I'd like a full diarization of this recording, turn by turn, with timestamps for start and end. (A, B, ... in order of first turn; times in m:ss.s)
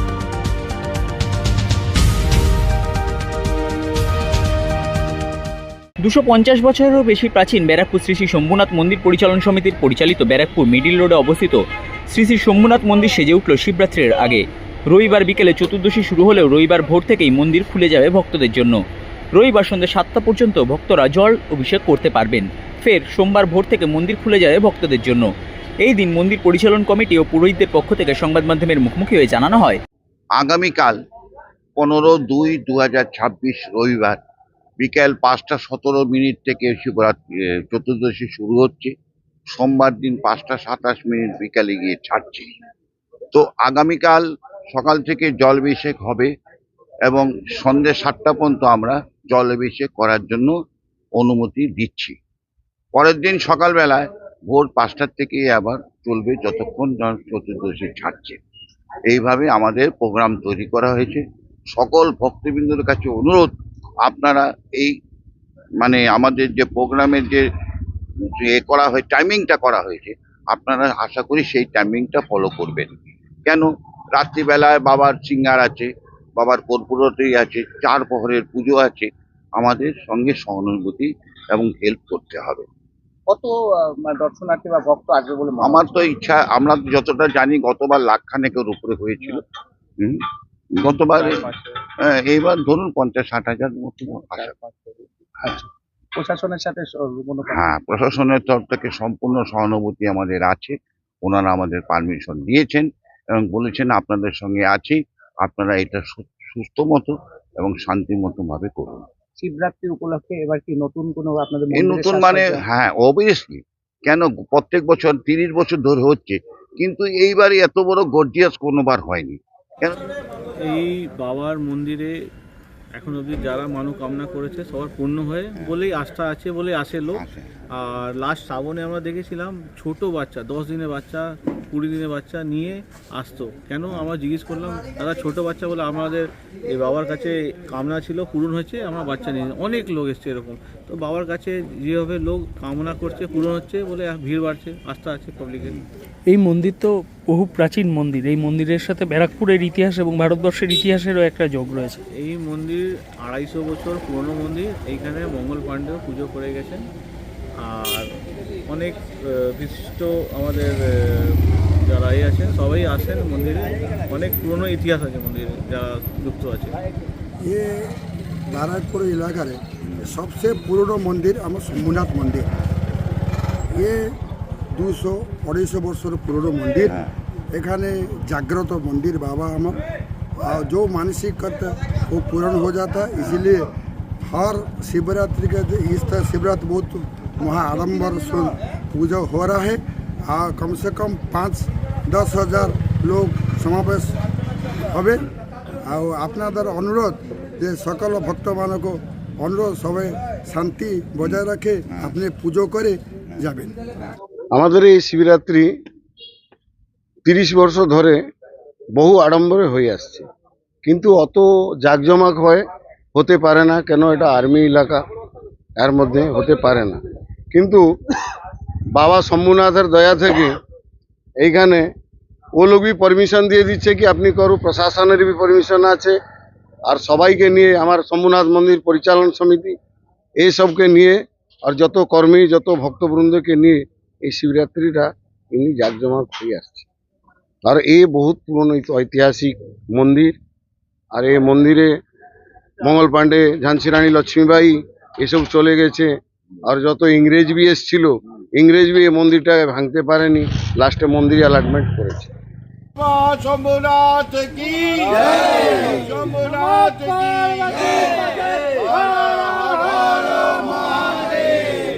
0:06.0-0:18.8 A
0:19.3-0:25.3 A
0:25.8-0:29.8 A
0:30.4-0:30.9 B
0:31.8-0:34.2 B
0:34.8-0:38.9 B
0:39.5-0:42.5 B
0:43.3-0:44.2 B
0:44.7-0:46.3 B
0:47.1-0:50.5 B
0:51.2-0:52.1 B
0:53.0-0:58.4 B
0:59.1-1:01.2 B
1:01.8-1:03.5 B
1:04.0-1:05.0 B
1:05.8-1:07.4 B
1:08.3-1:12.9 B
1:13.4-1:22.6 B
1:23.3-1:25.9 C
1:25.6-1:29.4 B
1:30.8-1:31.5 B
1:31.2-1:31.4 C
1:32.0-1:34.5 B
1:34.3-1:37.6 C
1:37.5-1:49.0 B
1:49.4-1:52.5 C
1:51.7-2:00.0 B
2:00.6-2:02.1 D
2:03.0-2:07.2 D
2:07.2-2:07.6 B
2:07.8-2:25.8 D
2:26.3-2:32.0 E
2:32.2-2:36.9 D
2:37.6-2:38.1 D
2:38.7-2:46.8 D
2:47.4-2:47.9 F
2:48.5-2:52.5 F
2:49.8-2:50.2 B
2:53.8-2:54.1 F
2:54.7-2:57.0 F
2:57.5-2:59.8 F
3:00.4-3:03.7 F
3:04.2-3:14.2 F
3:14.9-3:15.2 F
3:15.9-3:23.7 F
3:24.5-3:25.7 G
3:27.2-3:28.2 G
3:29.0-3:30.2 G
3:30.8-3:32.6 G
3:33.1-3:35.0 G
3:35.8-3:37.0 G
3:37.5-3:37.8 G
3:38.9-3:40.5 G
3:41.4-3:41.8 G
3:42.6-3:46.2 G
3:46.9-3:49.8 G
3:50.4-3:56.9 G
3:57.6-4:00.4 G
4:01.1-4:01.9 G
4:02.8-4:06.1 G
4:06.6-4:12.3 G
4:13.0-4:17.8 B
4:19.0-4:20.7 B